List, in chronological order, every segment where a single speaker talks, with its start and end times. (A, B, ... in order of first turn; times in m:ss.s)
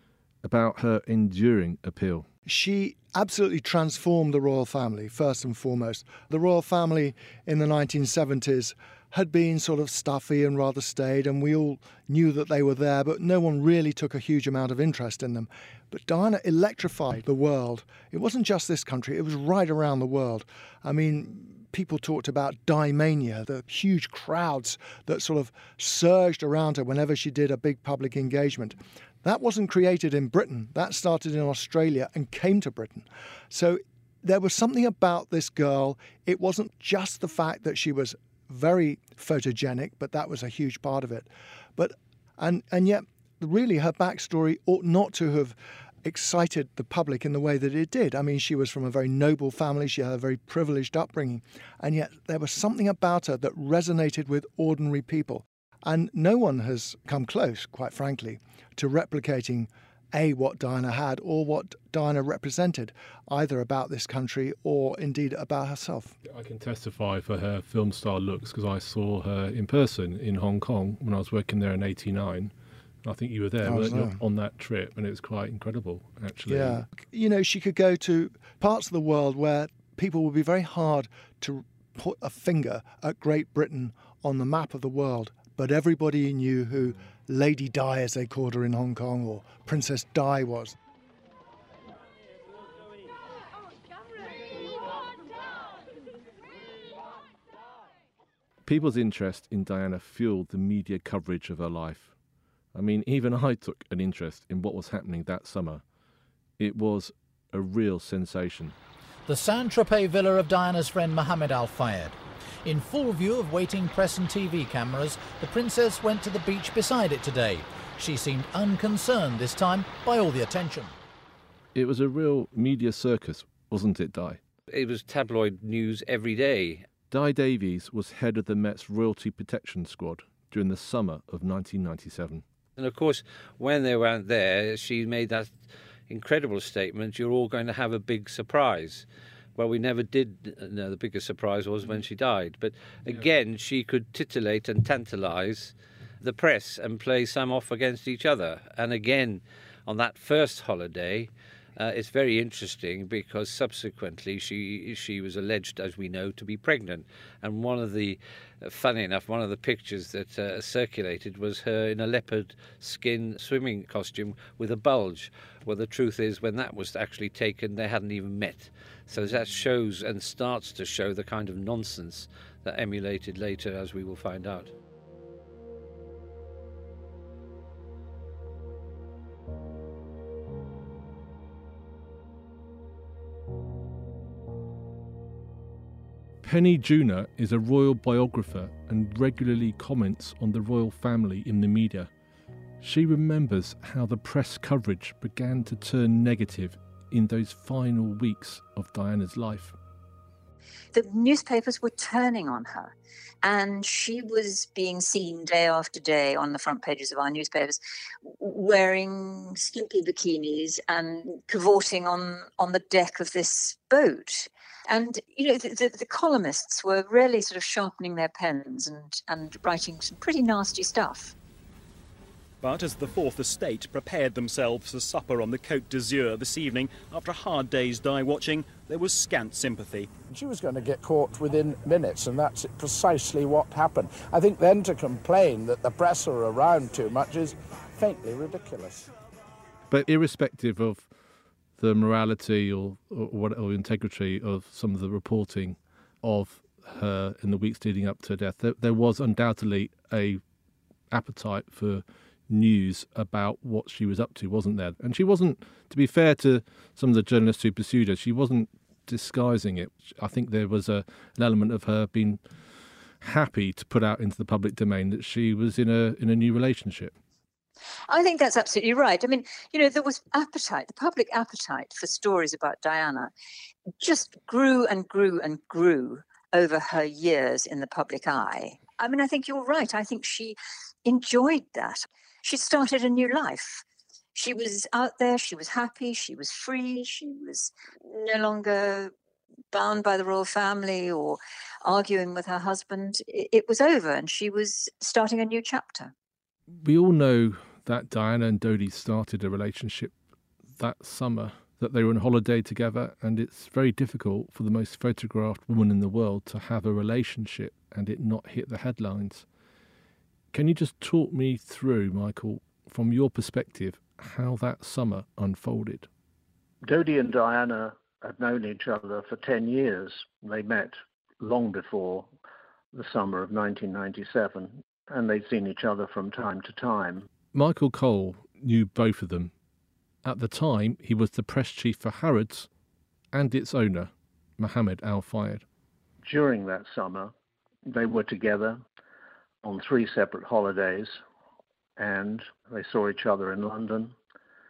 0:00.4-0:02.3 A
0:02.4-1:06.1 B
1:06.2-1:12.5 A
1:13.0-1:16.8 A
1:13.6-1:14.2 B
1:16.5-1:30.8 B
1:38.6-1:42.1 A
1:42.7-1:45.8 A
1:46.6-1:48.8 A
1:49.2-2:00.9 C
2:01.7-2:04.4 A
2:04.7-2:06.9 D
2:07.1-2:12.4 A
2:12.8-2:54.7 D
3:06.4-3:12.1 A
3:12.8-3:19.8 A
3:20.9-3:41.3 E
3:42.6-3:50.1 F
3:50.3-3:59.1 G
3:59.9-4:01.1 A
4:01.8-4:10.4 A
4:11.1-4:22.4 A
4:23.2-4:27.2 A
4:28.1-4:33.3 E
4:34.0-4:43.8 E
4:44.3-4:49.1 E
4:49.7-4:56.1 E
4:56.8-5:00.1 A
5:00.8-5:09.4 A
5:10.5-5:16.1 A
5:16.8-5:22.3 H
5:22.9-5:27.3 H
5:27.5-5:29.5 A
5:30.2-5:32.7 A
5:33.3-5:35.6 A
5:36.2-5:37.3 H
5:37.9-5:38.8 H
5:39.6-5:41.2 H
5:42.0-5:44.1 H